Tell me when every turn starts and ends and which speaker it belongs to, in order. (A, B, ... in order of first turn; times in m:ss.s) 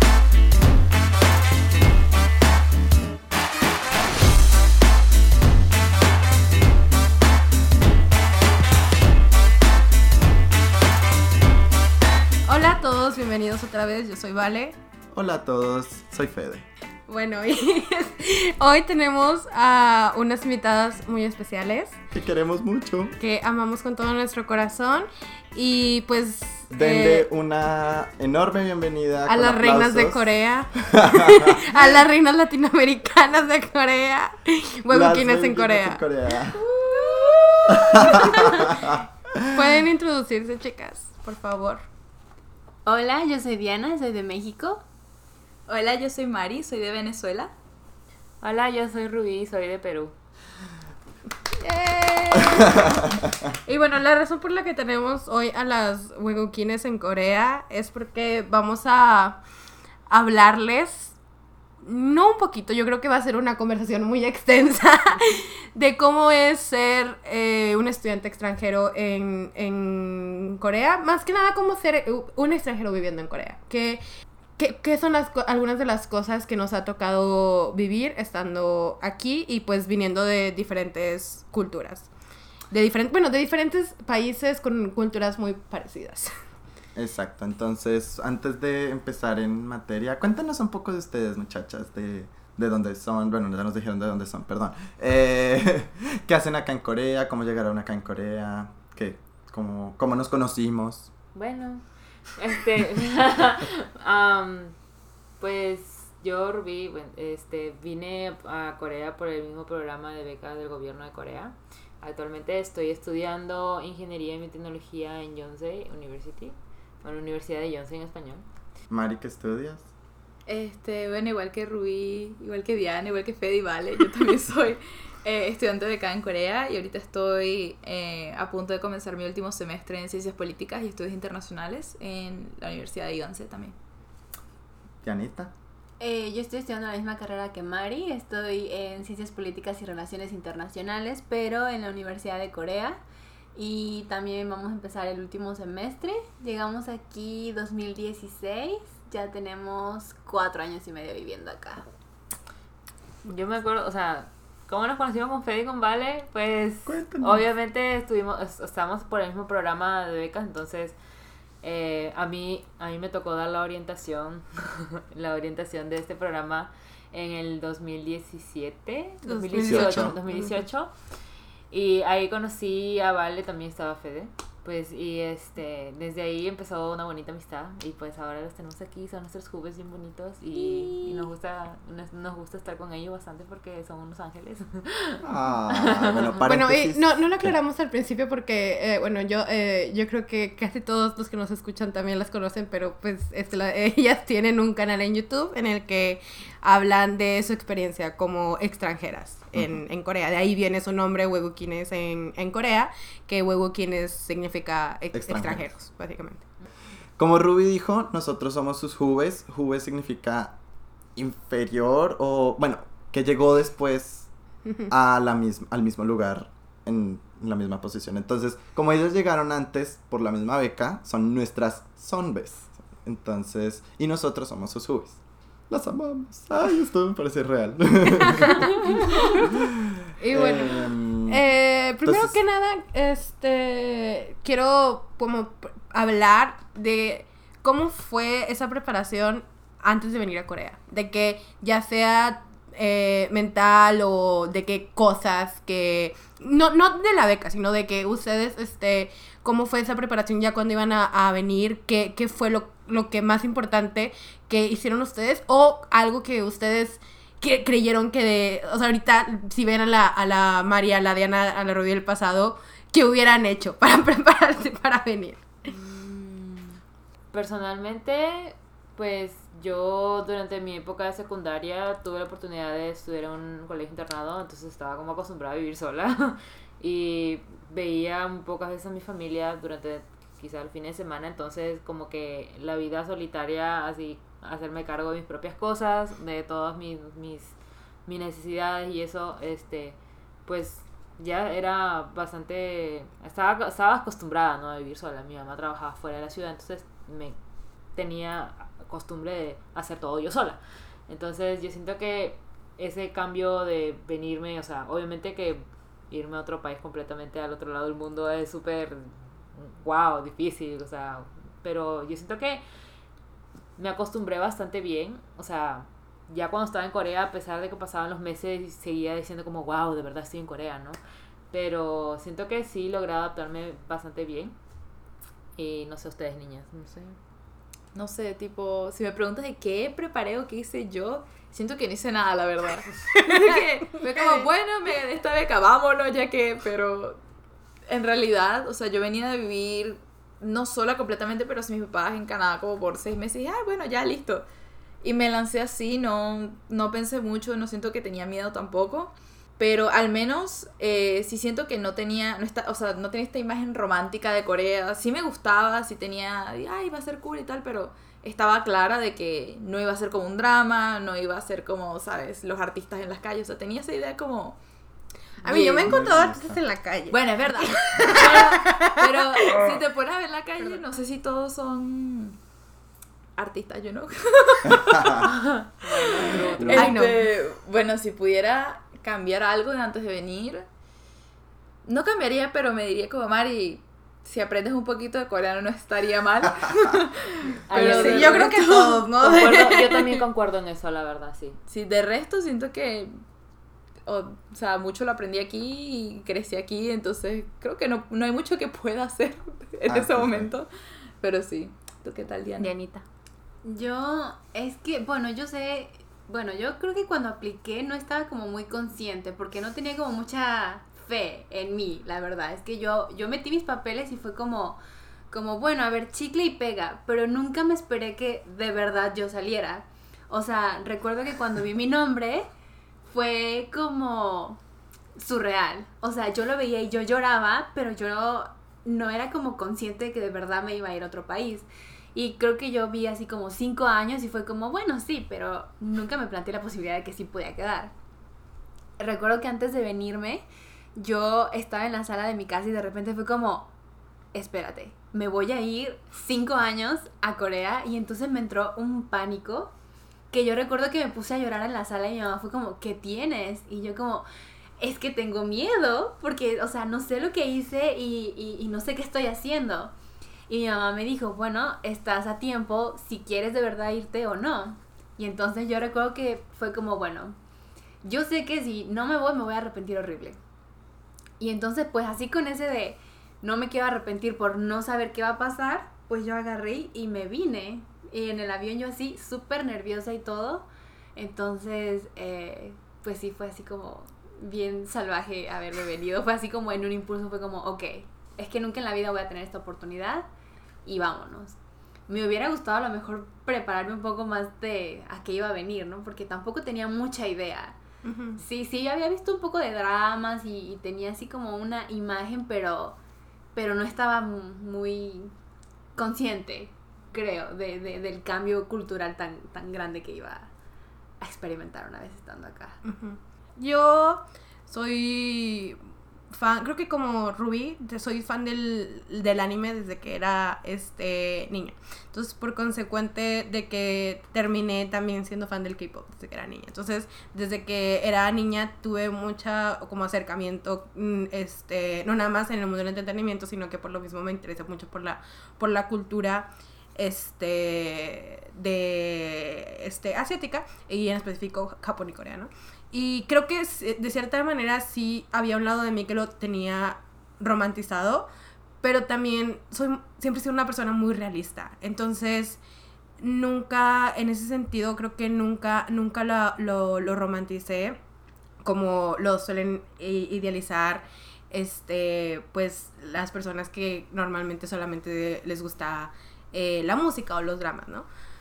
0:12.5-0:14.8 A
0:15.1-0:16.7 B
0:17.1-0:22.0 A
0:22.1-0:23.2 B
0:23.2-0:27.3 A
0:26.7-0:31.8 B
0:29.3-0:36.0 A
0:34.9-0:36.6 B
0:36.7-0:38.1 C
0:37.7-0:39.8 B
0:37.8-0:38.9 A
0:39.5-0:41.8 A
0:42.9-0:44.8 D
0:45.7-0:47.5 C
0:48.4-0:50.1 E
0:51.6-0:59.4 A
0:52.6-0:53.0 B
1:00.1-1:01.2 A
1:01.8-1:14.0 A
1:14.6-1:22.1 A
1:22.7-1:26.3 A
1:27.0-1:41.1 B
1:41.4-1:44.7 E
1:45.4-1:58.4 E
1:58.9-1:59.9 B
2:00.5-2:13.8 C
2:15.0-2:15.5 B
2:16.0-2:23.0 D
2:23.6-2:31.8 D
2:33.2-2:41.0 E
2:36.9-2:37.4 B
2:41.6-2:50.9 E
2:49.3-2:50.6 A
2:49.6-2:50.2 B
2:51.7-3:06.3 E
3:05.2-3:07.6 B
3:06.4-3:26.4 A
3:19.6-3:19.8 B
3:25.1-3:25.7 B
3:27.2-3:30.6 B
3:31.2-3:34.3 B
3:34.9-3:45.2 B
3:45.7-3:48.7 B
3:48.2-3:49.5 A
3:49.4-3:51.4 B
3:50.2-4:25.5 A
3:52.0-3:52.4 B
4:25.7-4:26.8 E
4:27.3-4:47.5 E
4:48.1-4:57.4 E
4:58.0-5:12.6 E
5:13.8-5:21.0 E
5:21.5-5:24.6 E
5:25.6-5:27.2 E
5:27.9-5:37.2 C
5:33.2-5:34.5 A
5:37.9-5:44.5 C
5:45.0-6:04.6 C
6:05.4-6:06.0 C
6:05.4-6:09.8 A
6:05.8-6:06.6 B
6:07.1-6:12.4 C
6:13.4-6:15.3 C
6:14.7-6:15.3 B
6:15.2-6:17.0 E
6:16.2-6:20.7 C
6:16.6-6:17.0 B
6:16.7-6:17.2 A
6:21.8-6:29.5 C
6:27.7-6:28.5 E
6:27.7-6:30.2 A
6:29.2-6:31.6 E
6:31.7-6:33.1 C
6:34.1-6:40.7 C
6:39.9-6:40.5 B
6:41.2-6:42.8 C
6:42.6-6:43.0 A
6:43.6-6:54.8 D
6:55.3-7:02.5 D
7:03.1-7:04.6 D
7:05.2-7:17.9 D
7:19.0-7:23.7 D
7:24.3-7:29.7 D
7:30.3-7:34.3 D
7:34.8-7:39.9 D
7:40.5-7:47.4 D
7:48.0-7:50.4 D
7:51.4-8:10.3 D
8:10.8-8:11.6 D
8:12.1-8:17.8 D
8:18.0-8:18.4 A
8:18.4-8:23.0 D
8:23.6-8:25.3 D
8:26.0-8:30.5 D
8:31.2-8:32.8 D
8:32.8-8:35.8 A
8:36.3-9:08.3 A
9:08.8-9:12.6 A
9:13.2-9:18.0 A
9:18.6-9:28.1 A